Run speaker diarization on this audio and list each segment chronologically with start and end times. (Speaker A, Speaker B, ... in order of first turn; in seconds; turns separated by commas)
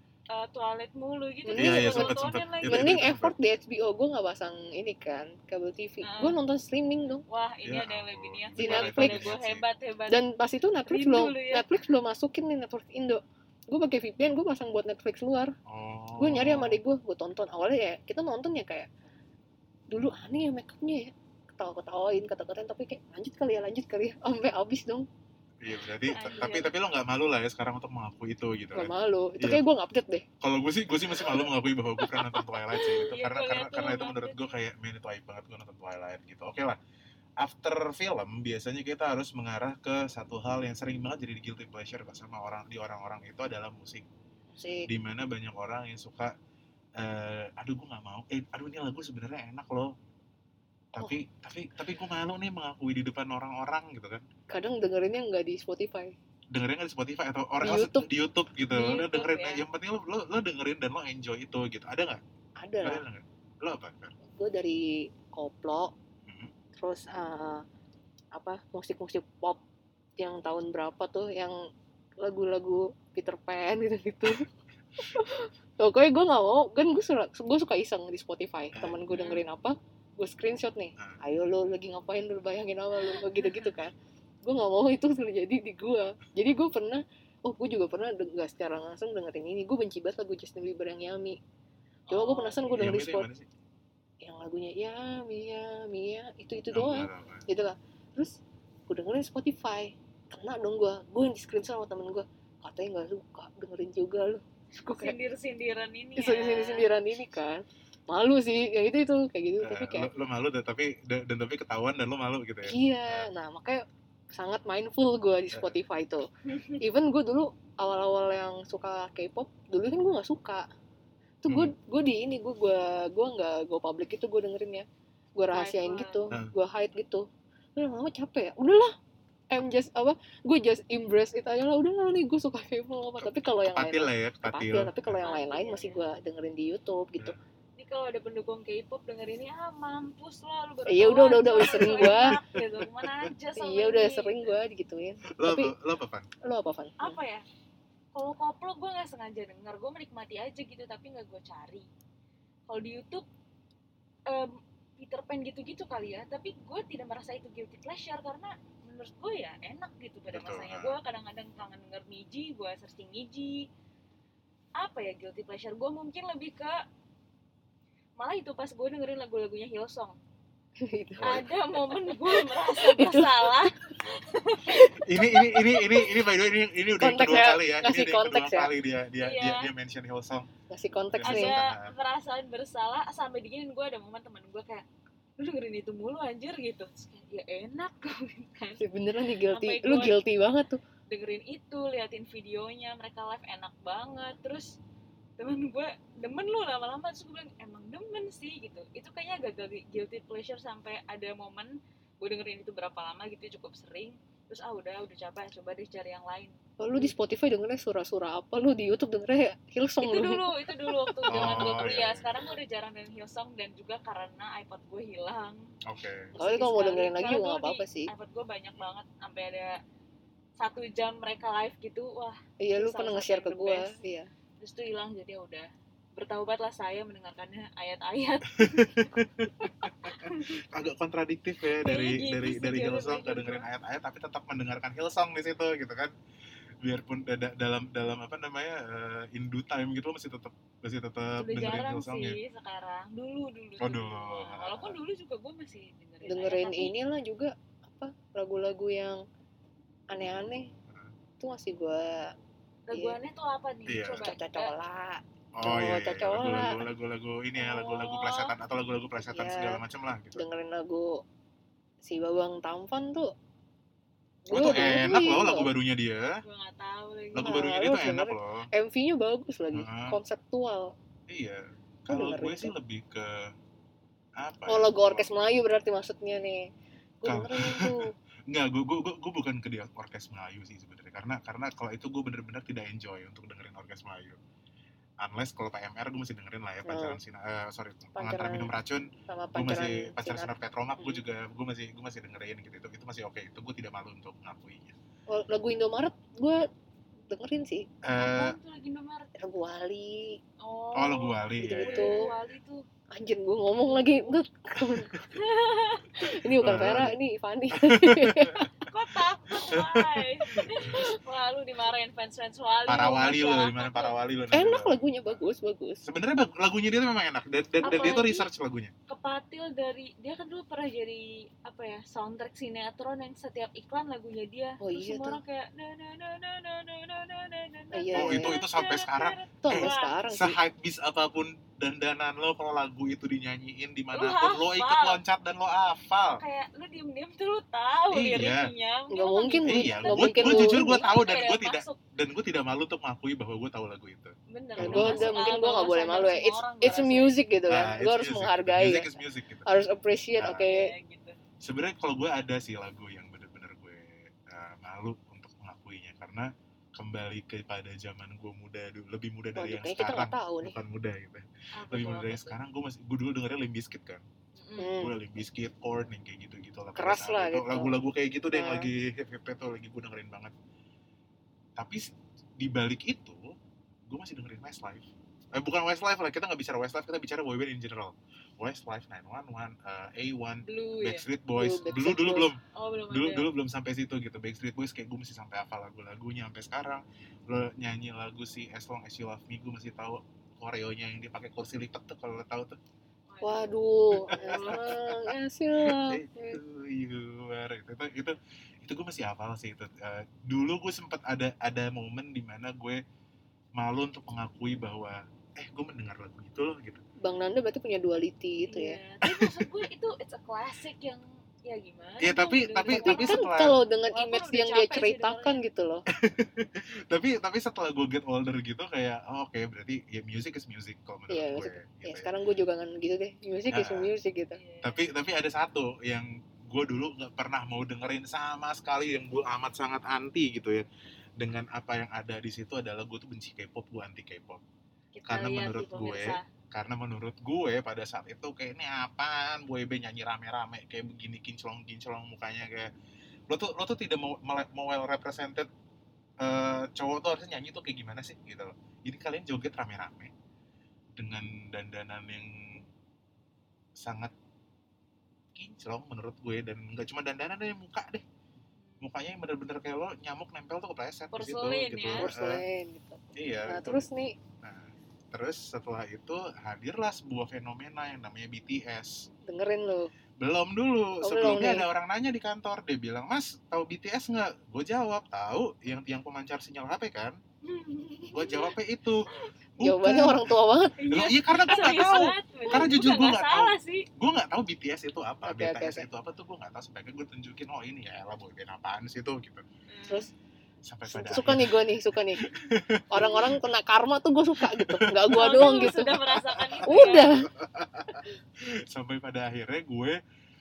Speaker A: 0.3-3.0, Speaker B: 1.4-7.2, Speaker C: 1.6-3.4, Speaker A: 6.0-6.4, Speaker A: 7.3-10.2, Speaker C: 7.6-9.6, Speaker B: 8.6-9.4, Speaker B: 10.1-15.5, Speaker A: 10.9-11.6, Speaker C: 15.7-16.8, Speaker B: 16.2-18.9, Speaker B: 19.9-25.1, Speaker C: 25.6-29.6, Speaker A: 26.1-26.7, Speaker B: 28.7-30.2, Speaker C: 30.4-36.8, Speaker A: 32.7-34.5, Speaker C: 37.4-44.0, Speaker B: 44.6-44.9, Speaker C: 44.9-46.3, Speaker C: 47.0-49.9, Speaker C: 50.9-54.2, Speaker B: 54.5-56.1, Speaker C: 56.5-62.2, Speaker B: 57.6-58.1, Speaker A: 58.7-59.6, Speaker B: 62.6-63.0, Speaker C: 62.8-64.1, Speaker B: 64.3-65.9, Speaker C: 66.2-66.5, Speaker B: 66.8-67.6, Speaker B: 68.3-69.6, Speaker B: 70.2-71.5, Speaker B: 72.2-74.5, Speaker B: 75.1-91.4, Speaker C: 78.7-79.0, Speaker A: 79.1-79.4, Speaker A: 83.0-83.7, Speaker A: 92.1-93.0, Speaker B: 92.1-93.3, Speaker C: 92.8-93.5, Speaker B: 94.2-105.1, Speaker C: 96.7-97.5, Speaker A: 104.9-106.9, Speaker B: 106.2-110.1, Speaker C: 109.6-113.3, Speaker B: 112.6-116.2, Speaker A: 116.5-116.8, Speaker B: 116.8-120.7, Speaker B: 121.4-124.8, Speaker C: 121.5-121.7, Speaker B: 125.3-128.9, Speaker A: 125.5-126.2, Speaker B: 129.5-137.3, Speaker C: 133.2-135.2, Speaker A: 135.2-136.0, Speaker A: 137.8-144.6, Speaker B: 140.9-142.4, Speaker C: 141.6-143.3, Speaker B: 143.6-145.7, Speaker C: 145.3-146.3, Speaker B: 146.4-147.2, Speaker A: 147.0-147.4, Speaker A: 148.1-151.9, Speaker A: 152.7-153.2, Speaker A: 154.3-163.7, Speaker C: 160.3-160.9, Speaker A: 164.8-166.8, Speaker A: 168.2-170.2, Speaker B: 170.8-171.4, Speaker C: 171.2-171.5, Speaker A: 171.2-175.6, Speaker B: 172.1-173.7, Speaker C: 174.9-180.5, Speaker B: 177.0-178.7, Speaker A: 179.2-179.7, Speaker B: 180.7-181.6, Speaker C: 181.1-181.9, Speaker A: 181.2-184.8, Speaker A: 185.4-188.8, Speaker B: 188.8-190.8, Speaker A: 189.5-190.2, Speaker A: 191.1-194.8, Speaker A: 195.4-207.1, Speaker B: 206.8-211.7, Speaker A: 210.0-215.7, Speaker C: 211.3-212.3, Speaker C: 215.8-216.3, Speaker A: 216.3-219.8, Speaker B: 216.3-218.1, Speaker A: 220.6-223.9, Speaker B: 222.6-224.3, Speaker A: 224.6-229.0, Speaker C: 228.5-236.1, Speaker A: 229.6-230.6, Speaker A: 231.8-233.7, Speaker C: 236.8-242.4, Speaker A: 241.4-246.9, Speaker C: 243.8-245.0, Speaker B: 246.2-249.2, Speaker B: 250.1-250.7, Speaker B: 251.4-252.3, Speaker A: 252.9-254.7, Speaker C: 253.9-254.3, Speaker B: 254.1-256.8, Speaker C: 255.6-260.4, Speaker A: 257.6-258.5, Speaker B: 259.2-259.8, Speaker B: 260.4-261.2, Speaker B: 262.0-263.3, Speaker B: 264.4-265.7, Speaker C: 264.5-266.4, Speaker A: 266.4-267.7, Speaker C: 267.3-268.7, Speaker B: 267.4-270.9, Speaker C: 269.7-270.2, Speaker C: 271.3-273.5, Speaker B: 272.1-272.7, Speaker C: 274.4-275.3, Speaker B: 274.7-276.7, Speaker B: 277.2-278.1, Speaker C: 277.2-284.4, Speaker C: 285.2-294.9, Speaker B: 286.9-287.2, Speaker B: 288.1-288.7, Speaker B: 289.3-291.2, Speaker B: 295.3-296.7, Speaker B: 297.3-297.9, Speaker C: 298.0-298.6, Speaker A: 298.1-299.3, Speaker B: 299.4-300.4, Speaker A: 300.6-302.8, Speaker C: 300.9-302.3, Speaker B: 301.6-302.3, Speaker B: 303.1-305.1, Speaker A: 303.8-304.3, Speaker A: 305.3-306.1, Speaker B: 306.2-308.7, Speaker C: 306.6-307.1, Speaker C: 307.7-308.7, Speaker A: 308.8-314.1, Speaker C: 309.5-311.0, Speaker C: 312.9-315.4, Speaker B: 314.5-316.0, Speaker C: 316.0-318.9, Speaker B: 317.8-318.4, Speaker A: 317.8-318.3, Speaker A: 319.1-330.1, Speaker B: 324.8-325.4, Speaker B: 327.9-328.6, Speaker C: 328.1-336.4, Speaker B: 329.6-330.6, Speaker A: 334.1-335.2, Speaker A: 336.3-342.0, Speaker C: 338.1-338.7, Speaker B: 339.1-341.0, Speaker C: 339.6-345.4, Speaker A: 344.5-347.4, Speaker B: 344.8-349.1, Speaker C: 347.7-349.7, Speaker B: 349.6-350.9, Speaker C: 350.4-350.7, Speaker A: 350.7-351.4, Speaker C: 351.6-364.2, Speaker B: 359.6-360.8, Speaker A: 361.8-362.6, Speaker A: 364.6-365.0, Speaker B: 364.8-365.1, Speaker C: 365.0-370.5, Speaker B: 366.9-367.9, Speaker B: 368.5-368.9, Speaker C: 371.8-373.5, Speaker C: 374.1-382.6, Speaker A: 380.6-381.2, Speaker B: 381.5-382.5, Speaker A: 382.7-383.5, Speaker C: 383.1-392.8, Speaker A: 393.3-394.6, Speaker B: 393.4-396.6, Speaker C: 394.2-403.0, Speaker C: 403.8-407.0, Speaker B: 407.2-409.0, Speaker A: 408.7-413.5, Speaker C: 409.2-409.7, Speaker C: 412.2-413.8, Speaker B: 412.9-416.0, Speaker A: 414.1-415.6, Speaker C: 416.1-422.3, Speaker B: 421.3-424.6, Speaker C: 423.7-424.1, Speaker A: 424.5-425.1, Speaker C: 424.8-430.8, Speaker C: 431.4-434.6, Speaker A: 435.1-436.4, Speaker C: 435.3-442.9, Speaker C: 443.5-445.7, Speaker C: 446.4-450.3, Speaker C: 451.1-452.9, Speaker C: 454.0-454.3, Speaker C: 455.5-458.2, Speaker A: 458.8-459.1, Speaker C: 459.0-462.6, Speaker A: 461.3-462.3, Speaker B: 462.1-464.3, Speaker C: 463.3-464.0, Speaker C: 464.6-469.3, Speaker B: 469.4-470.1, Speaker C: 470.4-477.4, Speaker B: 471.2-471.9, Speaker A: 477.6-478.7, Speaker C: 478.3-479.2, Speaker C: 479.8-489.6, Speaker B: 479.8-481.0, Speaker A: 481.0-484.1, Speaker B: 485.4-486.1, Speaker A: 489.9-490.2, Speaker C: 490.8-493.5, Speaker B: 491.1-492.4, Speaker B: 493.1-496.1, Speaker C: 494.6-495.5, Speaker A: 495.3-497.3, Speaker C: 496.1-500.2, Speaker B: 496.9-497.5